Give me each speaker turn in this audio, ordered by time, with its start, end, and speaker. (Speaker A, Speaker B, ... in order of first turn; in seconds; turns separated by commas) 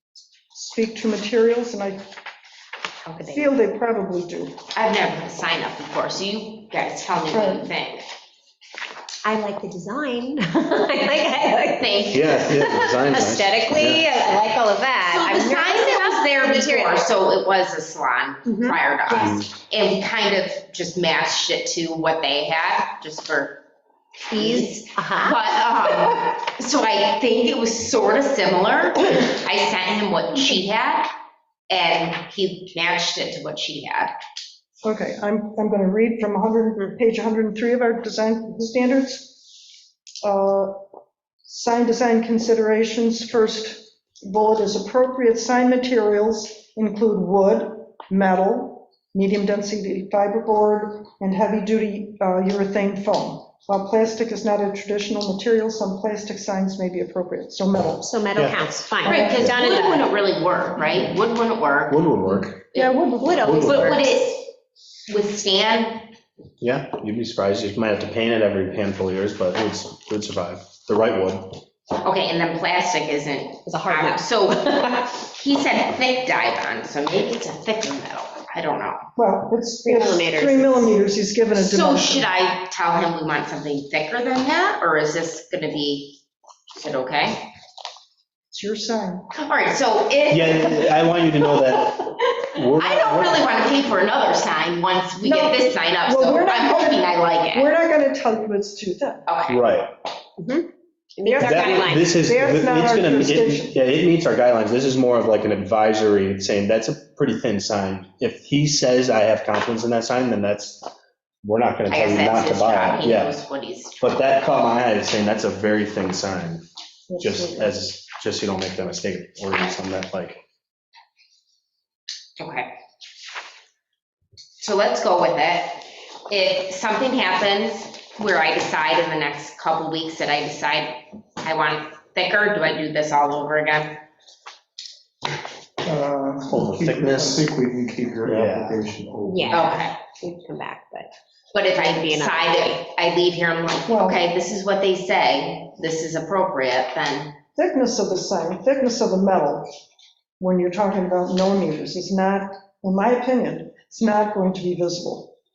Speaker A: 0.5-2.0, Speaker B: 3.1-3.5, Speaker A: 3.2-4.5, Speaker C: 4.7-8.0, Speaker A: 7.3-7.7, Speaker B: 9.2-17.1, Speaker C: 11.8-12.4, Speaker D: 12.1-14.1, Speaker C: 15.0-23.6, Speaker B: 18.4-19.3, Speaker D: 19.1-19.5, Speaker B: 24.3-25.9, Speaker C: 24.3-31.1, Speaker C: 31.7-34.2, Speaker A: 34.8-39.4, Speaker A: 40.2-40.8, Speaker A: 41.5-58.1, Speaker B: 58.0-60.1, Speaker D: 58.3-58.6, Speaker A: 59.0-59.6, Speaker C: 59.0-63.1, Speaker D: 61.9-62.6, Speaker A: 62.7-63.9, Speaker B: 63.2-64.0, Speaker D: 63.4-64.0, Speaker C: 63.6-64.5, Speaker C: 65.1-66.1, Speaker D: 66.6-71.6, Speaker C: 72.0-79.1, Speaker B: 73.7-74.3, Speaker A: 79.2-82.3, Speaker B: 79.8-80.9, Speaker C: 81.5-86.2, Speaker C: 86.7-87.5, Speaker A: 88.5-89.2, Speaker C: 89.3-91.5, Speaker D: 90.3-93.4, Speaker C: 92.5-97.7, Speaker A: 95.2-99.2, Speaker C: 99.3-99.6, Speaker D: 99.5-99.9, Speaker B: 100.4-102.2, Speaker A: 101.3-103.7, Speaker D: 101.4-110.9, Speaker D: 111.4-113.4, Speaker C: 111.9-114.1, Speaker D: 114.0-116.6, Speaker A: 117.1-117.7, Speaker D: 117.2-120.4, Speaker C: 122.4-122.7, Speaker C: 124.6-134.0, Speaker E: 135.8-139.7, Speaker D: 136.5-137.4, Speaker D: 138.2-138.8, Speaker B: 139.2-141.1, Speaker C: 139.5-139.9, Speaker C: 141.5-147.4, Speaker B: 141.8-142.8, Speaker A: 143.9-144.2, Speaker A: 147.5-149.7, Speaker A: 150.4-155.3